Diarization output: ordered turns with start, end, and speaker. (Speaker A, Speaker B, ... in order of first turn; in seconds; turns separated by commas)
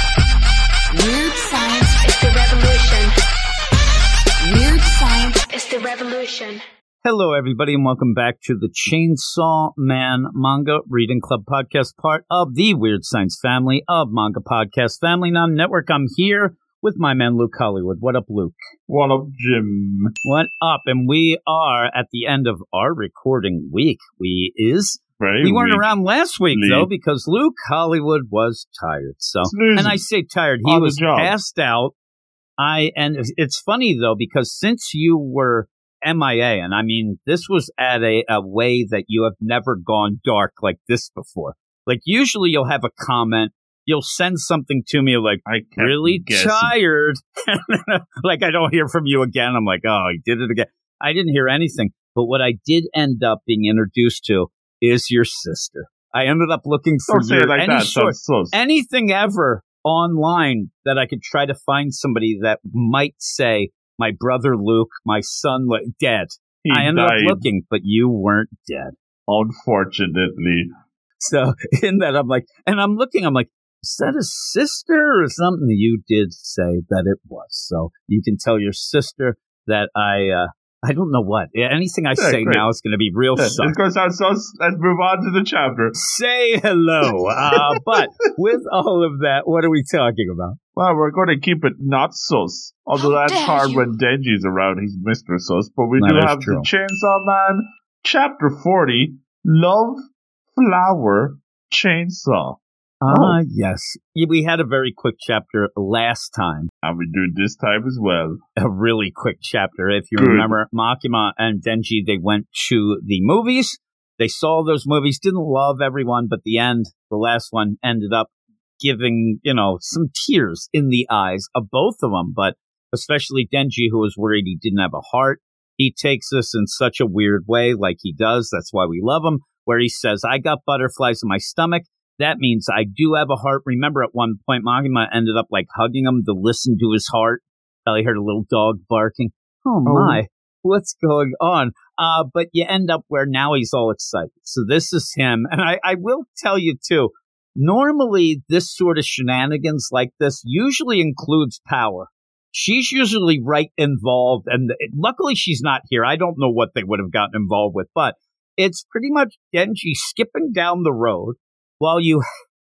Speaker A: 0.9-3.1, Speaker A: 4.4-6.6, Speaker B: 7.0-18.6, Speaker C: 18.9-20.1, Speaker B: 20.2-31.9, Speaker C: 25.2-25.9, Speaker C: 26.5-26.9, Speaker C: 29.4-30.0, Speaker C: 30.6-31.3, Speaker B: 32.6-68.9, Speaker C: 45.5-46.7, Speaker C: 57.1-58.6, Speaker C: 66.6-67.5, Speaker C: 69.3-70.7, Speaker B: 71.2-83.8, Speaker C: 82.2-82.7, Speaker C: 83.3-86.0, Speaker B: 85.9-90.6, Speaker C: 90.7-103.4, Speaker A: 93.2-93.6, Speaker B: 96.0-96.7, Speaker B: 103.0-106.7, Speaker C: 106.8-108.4, Speaker B: 108.6-162.2, Speaker C: 110.2-110.5, Speaker C: 139.8-140.2